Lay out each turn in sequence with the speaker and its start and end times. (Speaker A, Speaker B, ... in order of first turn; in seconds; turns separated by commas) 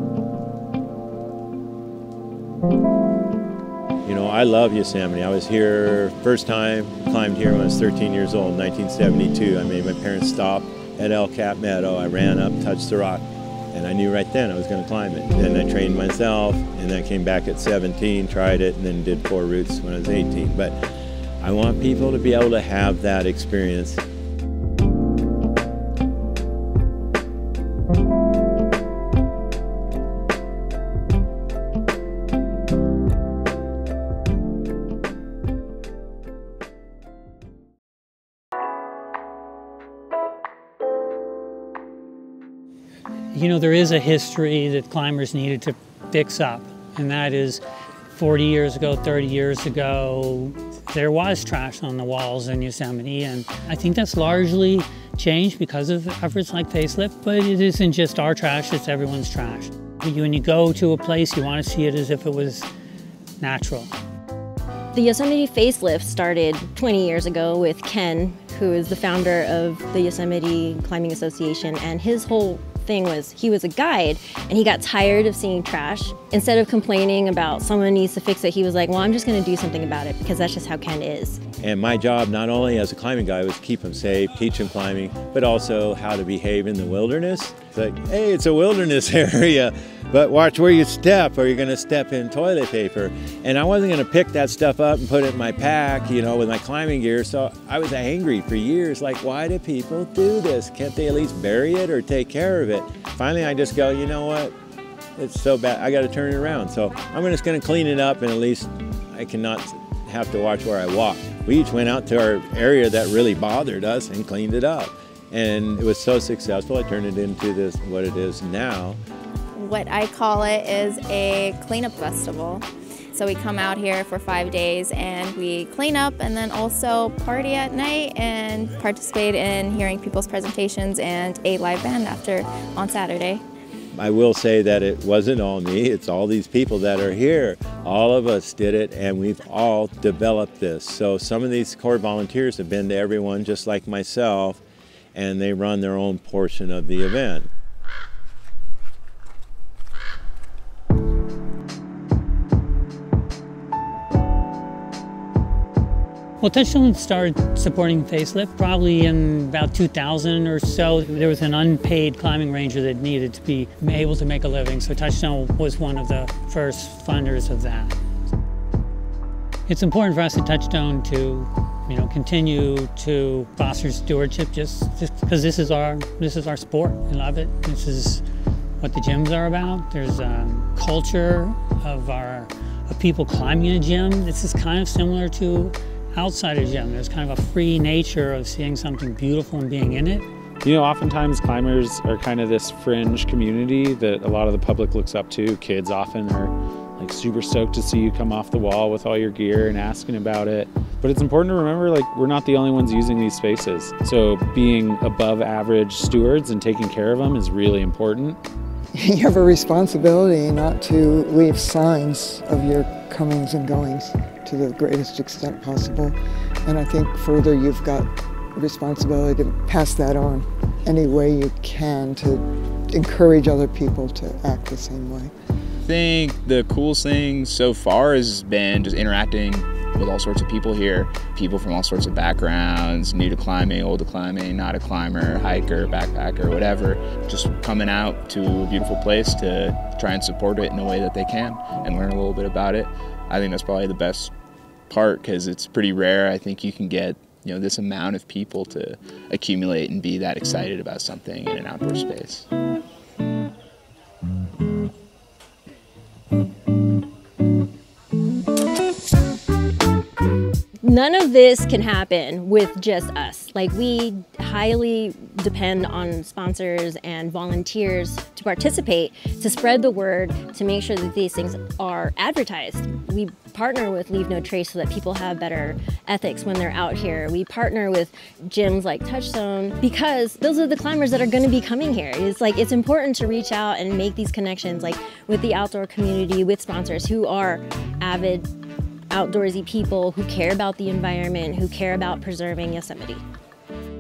Speaker A: 4.0-20.8, Speaker A: 21.4-24.0, Speaker B: 43.3-47.6, Speaker B: 48.1-62.7, Speaker B: 63.4-63.9, Speaker C: 64.9-81.4, Speaker A: 81.6-104.5, Speaker A: 105.2-119.0, Speaker D: 119.5-133.4, Speaker A: 133.9-144.6, Speaker A: 145.1-147.5, Speaker B: 156.4-167.9, Speaker B: 169.7-178.2, Speaker B: 178.8-190.2, Speaker E: 190.6-208.4, Speaker F: 208.9-225.3, Speaker G: 225.8-244.3, Speaker G: 244.9-252.5, Speaker C: 260.8-288.5, Speaker C: 289.1-293.2